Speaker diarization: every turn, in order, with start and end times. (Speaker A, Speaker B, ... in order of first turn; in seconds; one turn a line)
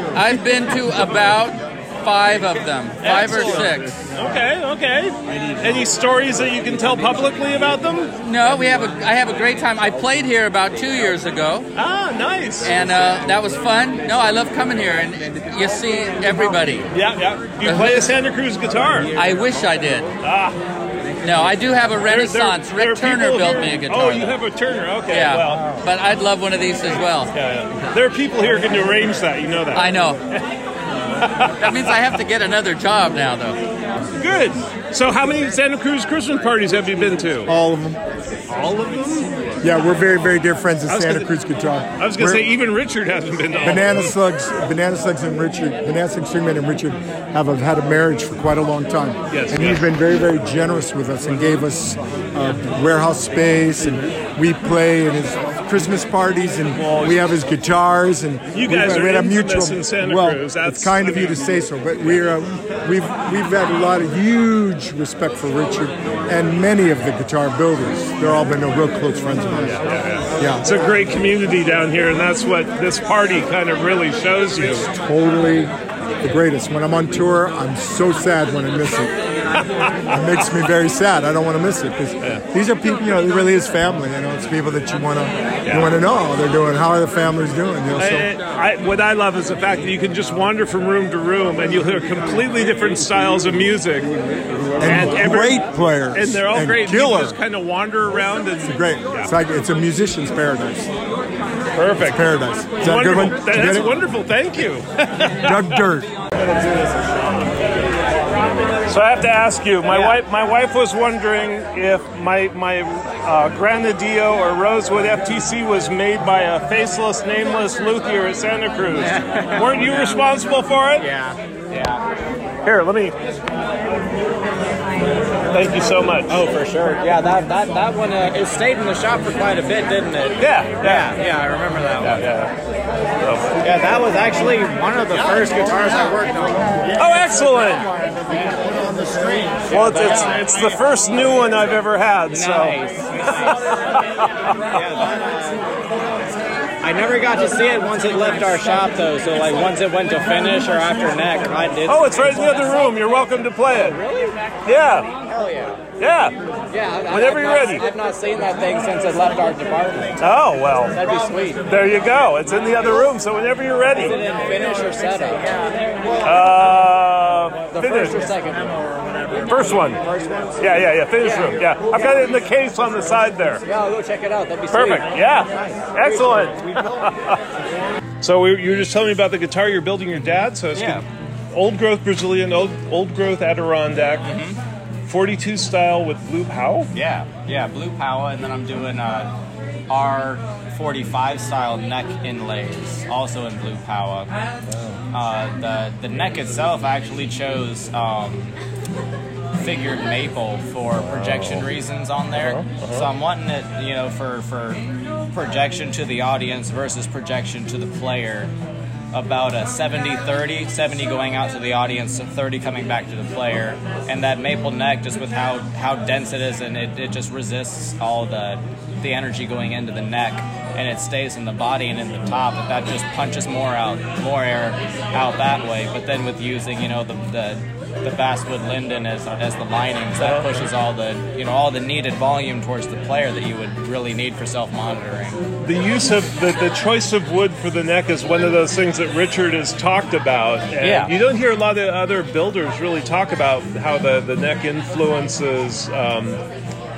Speaker A: 0.1-4.0
Speaker B: 3.0-8.1
Speaker A: 8.2-11.7
Speaker B: 11.7-12.8
Speaker A: 12.6-16.9
Speaker B: 16.9-19.1
Speaker A: 17.6-18.1
Speaker A: 19.1-20.1
Speaker B: 20.2-20.6
Speaker A: 21.2-24.4
Speaker B: 21.9-25.9
Speaker A: 25.1-27.3
Speaker B: 26.9-30.4
Speaker A: 29.7-30.2
Speaker B: 31.2-31.9
Speaker A: 31.6-33.6
Speaker B: 34.2-37.5
Speaker C: 37.5-38.0
Speaker B: 38.5-39.7
Speaker C: 39.6-42.5
Speaker B: 40.9-41.3
Speaker B: 42.0-44.2
Speaker C: 43.6-70.7
Speaker B: 49.3-49.8
Speaker B: 56.7-57.4
Speaker B: 58.5-62.3
Speaker B: 69.5-74.9
Speaker C: 74.6-79.1
Speaker B: 79.8-80.1
Speaker C: 80.0-88.3
Speaker B: 85.7-86.0
Speaker B: 88.0-94.1
Speaker C: 94.8-97.4
Speaker B: 94.8-99.3
Speaker C: 98.6-100.9
Speaker B: 101.7-105.8
Speaker C: 102.0-104.0
Speaker C: 105.4-106.1
Speaker B: 108.4-121.1
Speaker D: 109.9-110.1
Speaker D: 118.9-120.2
Speaker D: 121.0-122.0
Speaker B: 122.6-123.1
Speaker B: 125.5-126.5
Speaker D: 126.3-132.3
Speaker B: 130.4-131.2
Speaker B: 132.0-132.5
Speaker B: 133.2-133.5
Speaker D: 133.6-136.9
Speaker B: 136.9-137.9
Speaker D: 137.9-140.8
Speaker B: 139.7-145.1
Speaker D: 142.3-144.0
Speaker D: 144.6-145.7
Speaker D: 146.8-153.0
Speaker B: 151.8-154.0
Speaker D: 153.7-154.5
Speaker B: 154.6-155.1
Speaker D: 155.2-155.9
Speaker B: 156.0-156.3
Speaker D: 156.7-160.3
Speaker B: 157.0-157.9
Speaker B: 160.2-164.2
Speaker D: 160.9-161.7
Speaker D: 163.9-166.1
Speaker B: 166.2-168.3
Speaker D: 167.7-172.1
Speaker B: 169.3-170.0
Speaker B: 170.6-173.6
Speaker D: 173.7-176.9
Speaker B: 174.7-177.4
Speaker B: 178.2-184.3
Speaker D: 180.7-181.0
Speaker D: 184.2-184.6
Speaker B: 185.0-186.9
Speaker D: 186.9-189.3
Speaker D: 189.9-194.3
Speaker B: 194.7-195.0
Speaker D: 195.1-198.6
Speaker D: 199.6-208.5
Speaker B: 200.9-201.7
Speaker B: 202.3-203.1
Speaker D: 209.1-235.4
Speaker B: 230.2-230.7
Speaker B: 235.6-246.4
Speaker D: 240.8-241.1